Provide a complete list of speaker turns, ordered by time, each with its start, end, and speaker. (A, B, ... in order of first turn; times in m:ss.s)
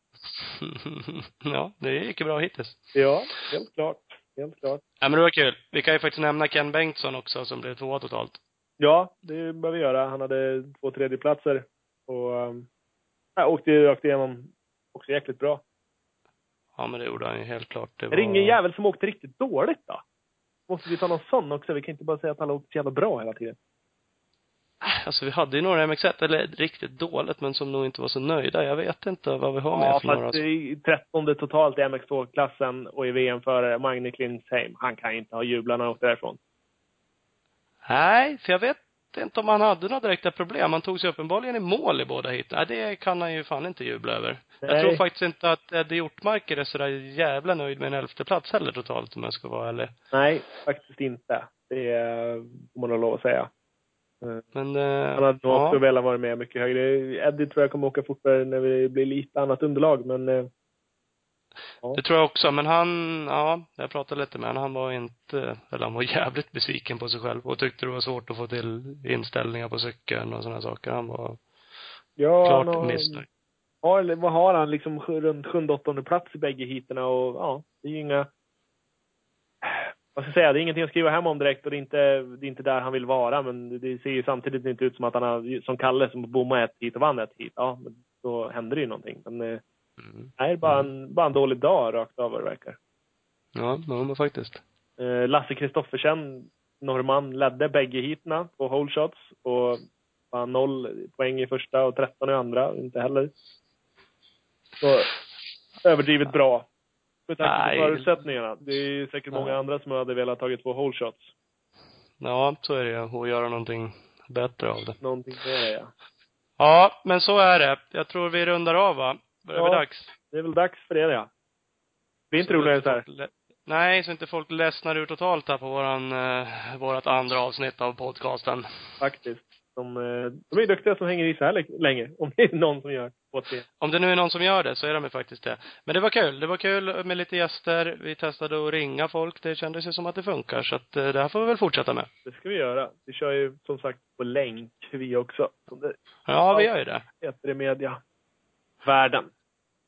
0:00.4-0:02.8 A
0:02.9-0:04.8 B
0:05.0-0:08.4 A
0:08.8-0:12.7 B
0:13.4-0:15.6 B
0:16.8-0:18.6 A
0:18.1-0:20.0 B
0:20.7-0:23.6 B
0:24.8-0:30.4 A
0:29.7-0:36.4 B
0:37.8-0:49.9 A
0:44.6-0:45.0 B
0:50.1-0:53.5 B
0:54.5-0:55.8 A
0:55.1-1:00.5 B
1:01.9-1:11.4 A
1:12.2-1:13.2 B
1:12.4-1:13.2 A
1:13.8-1:18.3 B
1:19.6-1:29.6 B
1:30.0-1:30.9 A
1:30.4-1:32.8 B
1:33.5-1:34.6 A
1:35.0-1:43.3 B
1:44.8-1:45.1 B
1:45.8-1:46.7 B
1:47.3-1:51.3 B
1:47.4-1:48.1 A
1:52.2-1:55.0 A
1:55.0-1:55.9 B
1:56.6-2:00.1 A
1:59.5-2:01.3 B
2:02.3-2:03.0 B
2:02.4-2:08.6 A
2:09.0-2:13.6 B
2:13.8-2:22.1 A
2:22.2-2:25.9 B
2:26.3-2:27.0 A
2:27.2-2:28.0 B
2:28.8-2:29.3 B